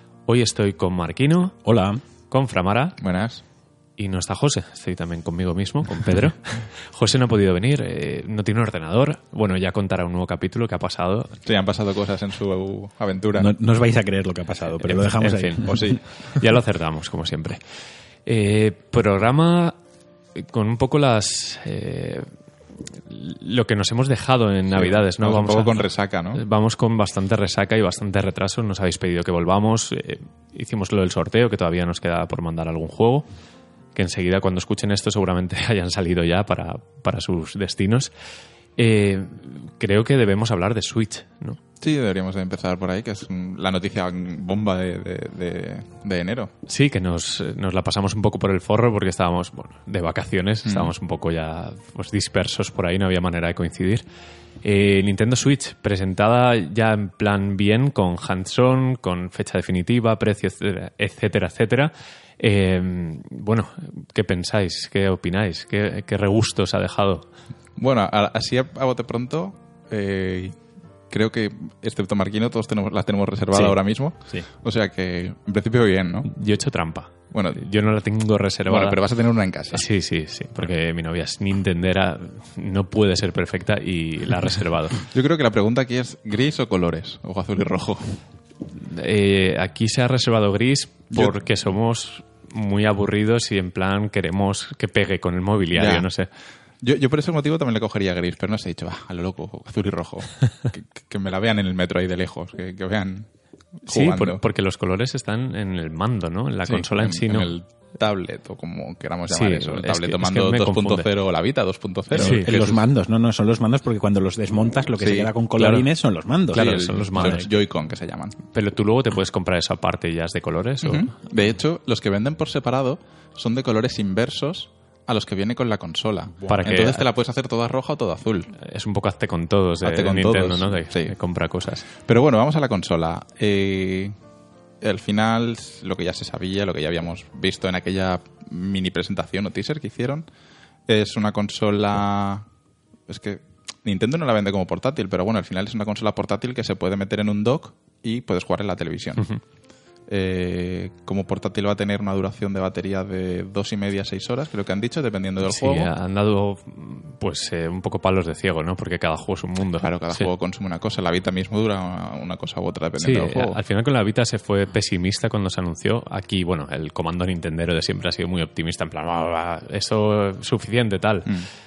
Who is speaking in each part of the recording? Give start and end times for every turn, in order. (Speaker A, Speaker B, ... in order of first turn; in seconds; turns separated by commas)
Speaker A: 0.3-1.6, Speaker B: 1.7-2.0, Speaker A: 2.3-3.0, Speaker C: 3.0-3.4, Speaker A: 4.0-11.4, Speaker C: 11.4-13.5, Speaker B: 13.4-16.0, Speaker A: 14.8-17.6, Speaker C: 15.7-16.0, Speaker A: 18.3-19.8, Speaker A: 20.4-22.3, Speaker A: 22.9-33.2, Speaker C: 24.7-26.4, Speaker A: 34.0-38.1, Speaker A: 38.8-41.6, Speaker C: 41.8-46.5, Speaker A: 46.7-54.0, Speaker C: 50.6-50.9, Speaker A: 54.6-67.3, Speaker C: 67.8-70.6, Speaker C: 71.1-76.3, Speaker A: 76.3-79.0, Speaker C: 77.3-77.6, Speaker C: 78.7-79.8, Speaker A: 79.7-85.0, Speaker C: 85.0-88.2, Speaker A: 88.8-96.3, Speaker C: 91.1-91.4, Speaker C: 95.8-96.1, Speaker C: 96.8-103.3, Speaker C: 103.8-104.4, Speaker A: 103.9-107.5, Speaker C: 106.7-112.8, Speaker A: 109.3-111.1, Speaker B: 112.1-117.5, Speaker A: 112.2-112.6, Speaker C: 115.0-115.3, Speaker A: 115.6-115.9, Speaker A: 116.5-117.5, Speaker C: 116.5-118.4, Speaker A: 118.5-121.1, Speaker C: 120.8-128.5, Speaker A: 126.5-127.1, Speaker A: 128.6-131.9, Speaker C: 129.8-131.2, Speaker C: 131.9-134.2, Speaker C: 134.8-140.3, Speaker C: 140.9-142.5, Speaker C: 143.1-149.3, Speaker C: 150.1-155.9, Speaker A: 155.4-160.3, Speaker C: 159.8-163.6, Speaker A: 163.0-171.3